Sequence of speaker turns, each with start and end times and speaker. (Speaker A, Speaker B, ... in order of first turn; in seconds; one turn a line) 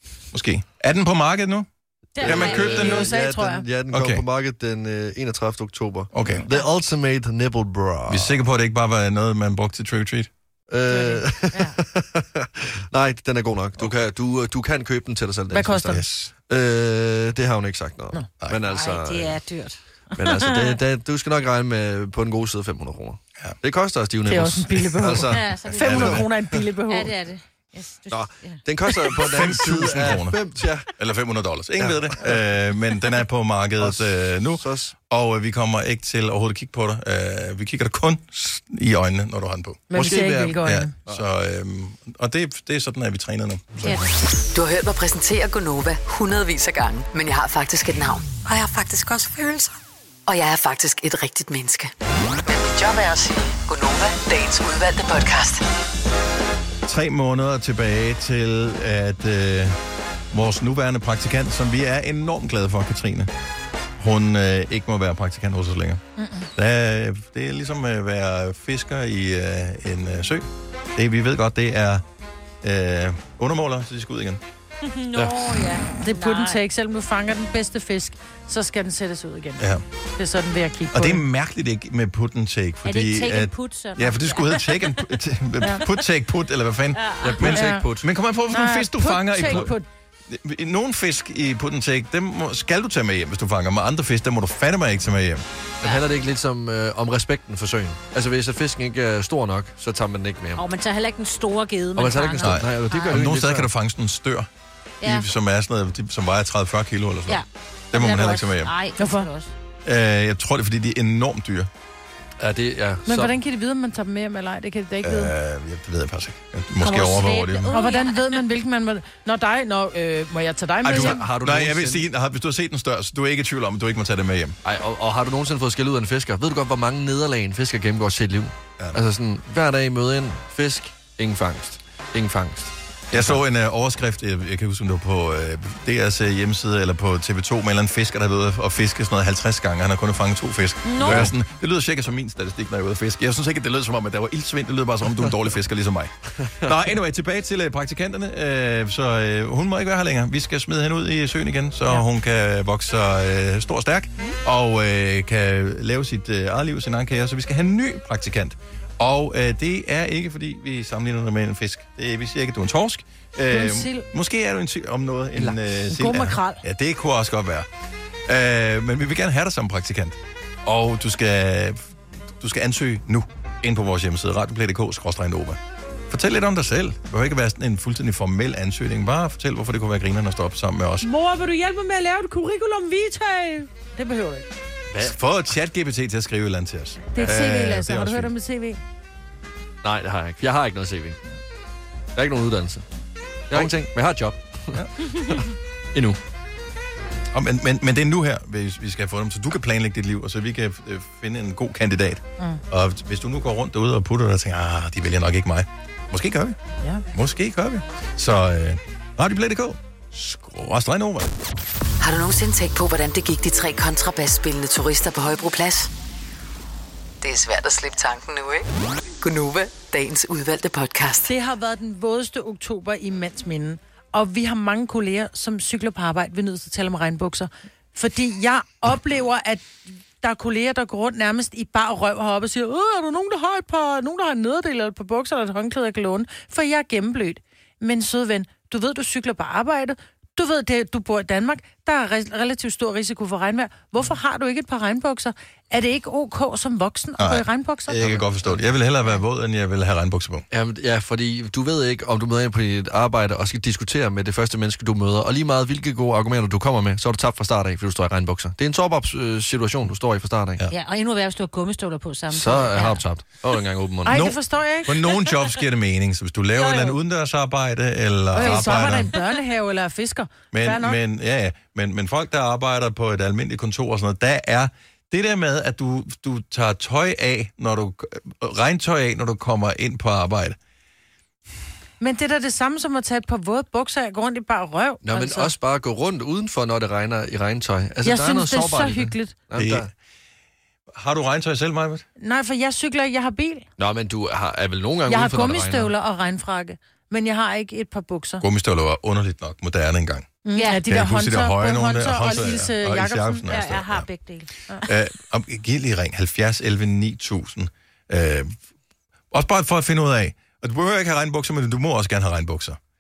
Speaker A: 0.3-1.7
Speaker B: 2.2-2.9
Speaker C: 2.2-8.4
Speaker A: 2.2-3.1
Speaker D: 2.5-3.6
Speaker A: 3.9-4.2
Speaker A: 6.1-6.4
Speaker A: 8.1-10.3
Speaker C: 10.7-19.4
Speaker D: 10.9-11.7
Speaker D: 15.5-16.1
Speaker A: 15.9-16.3
Speaker B: 18.6-20.7
Speaker C: 20.2-26.1
Speaker D: 24.3-27.1
Speaker B: 25.3-26.2
Speaker A: 25.8-26.2
Speaker B: 26.9-28.6
Speaker C: 28.1-30.9
Speaker A: 29.2-40.0
Speaker C: 31.8-32.4
Speaker C: 33.8-34.9
Speaker D: 39.9-40.9
Speaker C: 40.0-41.2
Speaker A: 40.5-44.0
Speaker E: 44.5-49.8
Speaker E: 50.3-51.9
Speaker E: 52.5-55.6
Speaker A: 56.9-59.8
Speaker A: 60.3-63.3
Speaker A: 64.0-66.0
Speaker D: 66.2-66.5
Speaker A: 66.6-72.0
Speaker A: 72.6-74.4
Speaker B: 74.8-76.6
Speaker C: 75.2-75.4
Speaker D: 76.0-81.2
Speaker A: 80.9-89.7
Speaker B: 82.8-85.0
Speaker B: 87.0-87.4
Speaker C: 87.2-88.1
Speaker D: 87.5-87.9
Speaker D: 88.5-89.9
Speaker A: 90.3-95.4
Speaker C: 95.8-100.6
Speaker B: 100.6-103.2
Speaker C: 102.0-103.7
Speaker A: 102.4-104.5
Speaker A: 105.0-108.7
Speaker B: 107.3-109.5
Speaker D: 109.0-109.3
Speaker A: 109.8-111.7
Speaker C: 112.4-113.4
Speaker D: 113.1-115.3
Speaker A: 115.0-117.8
Speaker B: 116.8-118.4
Speaker D: 117.7-121.2
Speaker C: 120.8-122.0
Speaker A: 120.8-124.6
Speaker C: 124.6-133.4
Speaker A: 133.1-167.7
Speaker B: 140.9-141.3
Speaker C: 141.0-141.3
Speaker D: 163.5-164.1
Speaker D: 165.4-166.6
Speaker A: 168.3-181.1
Speaker D: 181.0-184.5
Speaker A: 184.9-188.3
Speaker D: 187.1-188.8
Speaker C: 189.8-191.2
Speaker C: 192.2-192.8
Speaker C: 193.5-195.4
Speaker C: 195.9-196.2
Speaker A: 197.3-206.6
Speaker A: 207.1-211.3
Speaker E: 212.0-215.9
Speaker E: 217.2-218.7
Speaker E: 219.2-221.3
Speaker D: 221.3-248.0
Speaker A: 247.2-250.4
Speaker C: 248.0-248.6
Speaker C: 250.5-260.6
Speaker B: 260.7-263.0
Speaker C: 262.3-264.2
Speaker D: 264.1-265.0
Speaker A: 264.1-269.1
Speaker B: 266.6-266.9
Speaker D: 268.3-271.0
Speaker B: 268.4-269.0
Speaker A: 270.5-280.6
Speaker D: 282.0-285.5
Speaker C: 285.0-289.9
Speaker D: 288.0-289.4
Speaker A: 289.6-289.9
Speaker A: 290.9-292.1
Speaker D: 292.2-293.7
Speaker C: 293.8-295.9
Speaker D: 295.1-298.4
Speaker A: 298.4-304.1
Speaker D: 300.4-303.5
Speaker B: 300.5-300.8
Speaker B: 303.5-304.5
Speaker A: 304.9-308.6
Speaker A: 309.3-312.8